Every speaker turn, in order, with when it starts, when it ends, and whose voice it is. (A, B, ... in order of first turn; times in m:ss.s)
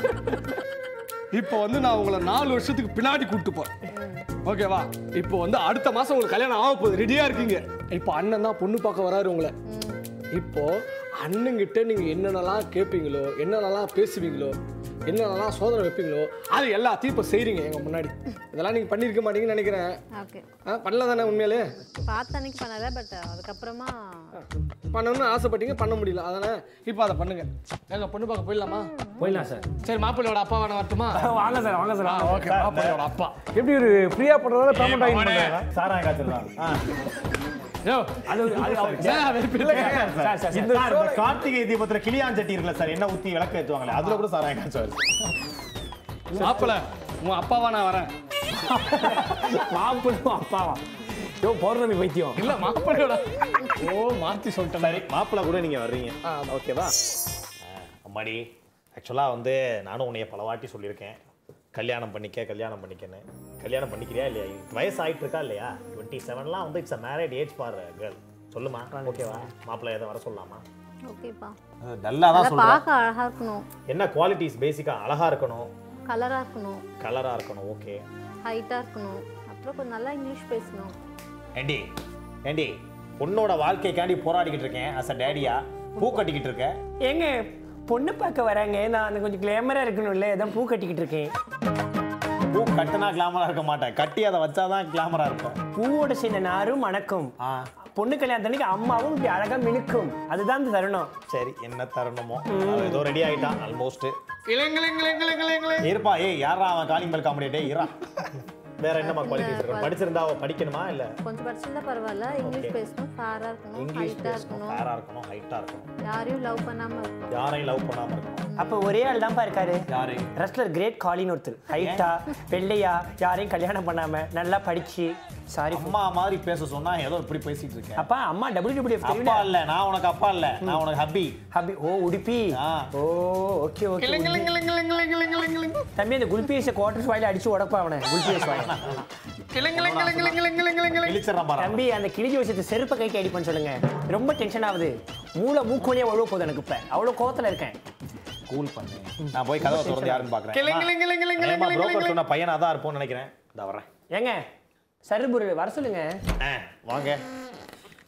0:01.3-0:03.7 A
0:03.9-0:04.3 B
0:04.4-0:09.5 A
0:09.7-0:10.0 B
0:10.3-0:20.0 A
0:20.2-0:20.4 B
0:20.6-0:21.8 A
0:22.0-0:24.4 B
0:24.9-0:28.9 A
0:29.2-0:29.6 C
0:29.8-0:31.3 A
0:31.1-0:32.5 C
0:32.0-0:33.4 A
0:32.4-0:33.0 D
0:33.5-0:35.6 E
0:34.7-0:35.6 A
0:35.6-0:36.8 D
0:37.8-0:38.2 A
0:38.2-0:41.2 C
0:38.3-0:45.2 D
0:39.0-0:40.0 A
0:39.5-0:41.3 E
0:46.3-0:46.7 E
0:46.4-0:48.1 A
0:48.6-0:50.8 C
0:51.4-0:52.5 C
0:52.4-0:55.0 A
0:54.8-0:56.9 D
0:56.2-0:56.6 A
0:57.6-0:58.4 D
0:59.0-1:01.2 D
1:01.7-1:10.6 D
1:08.9-1:09.5 E
1:11.1-1:11.5 B
1:11.8-1:12.8 D
1:12.3-1:13.6 B
1:13.9-1:15.7 D
1:16.1-1:16.8 B
1:17.0-1:18.0 D
1:18.4-1:20.9 B
1:21.6-1:21.9 D
1:22.4-1:26.7 D
1:26.0-1:26.2 B
1:27.0-1:31.3 C
1:32.5-1:35.6 D
1:35.7-1:37.3 C
1:37.4-1:37.6 D
1:37.9-1:41.1 C
1:41.3-1:44.1 D
1:42.5-1:43.1 C
1:44.5-1:45.9 A
1:45.8-1:51.1 D
1:49.0-1:50.0 B
1:51.2-1:54.9 B
1:52.4-1:52.8 D
1:53.7-1:55.9 D
1:56.0-1:57.3 B
1:57.3-1:58.4 D
1:58.5-1:58.8 B
1:58.6-2:06.0 C
1:59.9-2:00.3 D
2:01.8-2:02.0 D
2:05.7-2:08.0 D
2:08.0-2:09.5 C
2:09.0-2:11.4 D
2:11.5-2:14.5 C
2:12.5-2:12.8 D
2:14.0-2:15.8 A
2:16.0-2:18.8 C
2:18.2-2:19.0 D
2:19.5-2:21.2 A
2:19.7-2:20.4 D
2:21.0-2:21.8 D
2:21.6-2:27.8 C
2:28.5-2:33.9 D
2:29.6-2:30.3 C
2:30.5-2:32.2 A
2:34.1-2:34.4 C
2:35.0-2:36.2 C
2:36.4-2:37.2 D